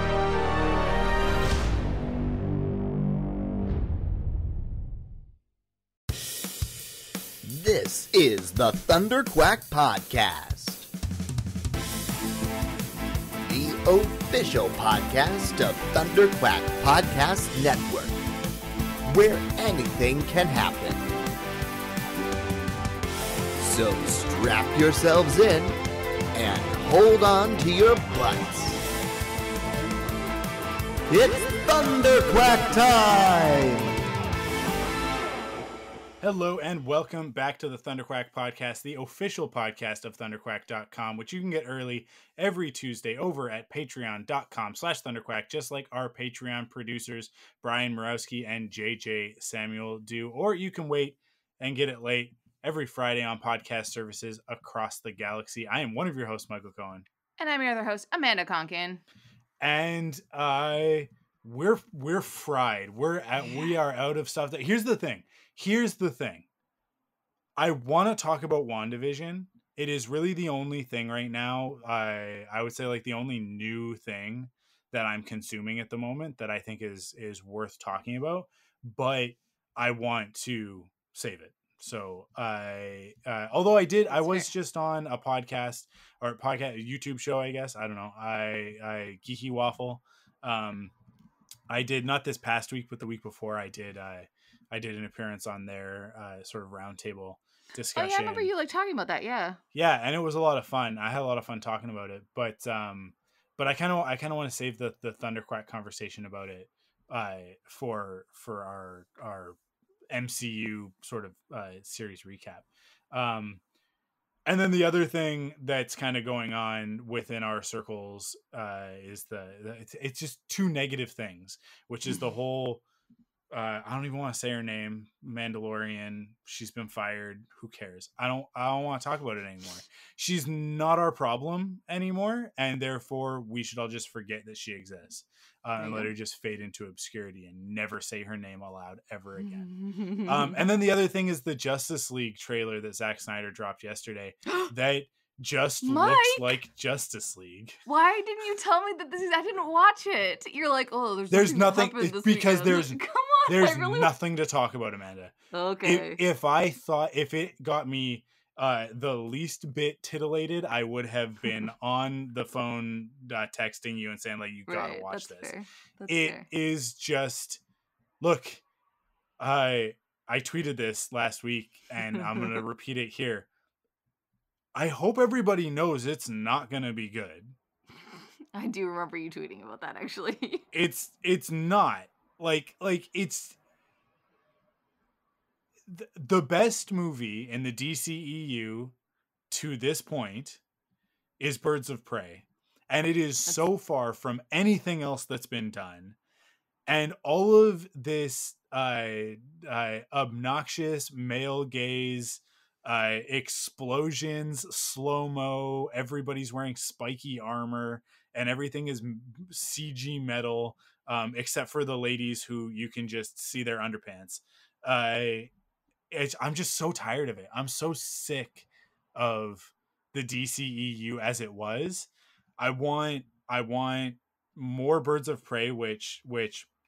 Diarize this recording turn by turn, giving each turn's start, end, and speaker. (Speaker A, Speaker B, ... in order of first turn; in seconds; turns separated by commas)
Speaker A: 7.4-10.9, Speaker A: 13.4-18.2, Speaker A: 19.1-21.1, Speaker A: 23.6-25.8, Speaker A: 26.3-28.8, Speaker A: 31.1-33.9, Speaker B: 36.2-57.0, Speaker C: 57.4-59.0, Speaker B: 59.6-66.5, Speaker B: 67.6-90.9, Speaker C: 84.1-84.5, Speaker B: 91.7-98.5, Speaker C: 97.9-99.6, Speaker B: 99.7-109.6, Speaker B: 110.1-113.6, Speaker B: 114.5-122.8, Speaker B: 123.5-139.7, Speaker C: 135.8-136.1, Speaker C: 139.4-140.6, Speaker B: 140.2-147.8, Speaker C: 145.8-146.6, Speaker C: 147.8-154.1, Speaker B: 151.3-165.5, Speaker C: 155.5-156.2, Speaker C: 164.7-166.5, Speaker B: 166.1-167.6, Speaker B: 168.2-168.6, Speaker B: 169.4-173.5, Speaker B: 174.7-177.5, Speaker C: 178.5-180.7, Speaker B: 180.7-183.6, Speaker B: 185.9-188.9, Speaker B: 189.5-190.6, Speaker B: 191.4-196.2, Speaker B: 196.8-215.5, Speaker B: 216.1-226.7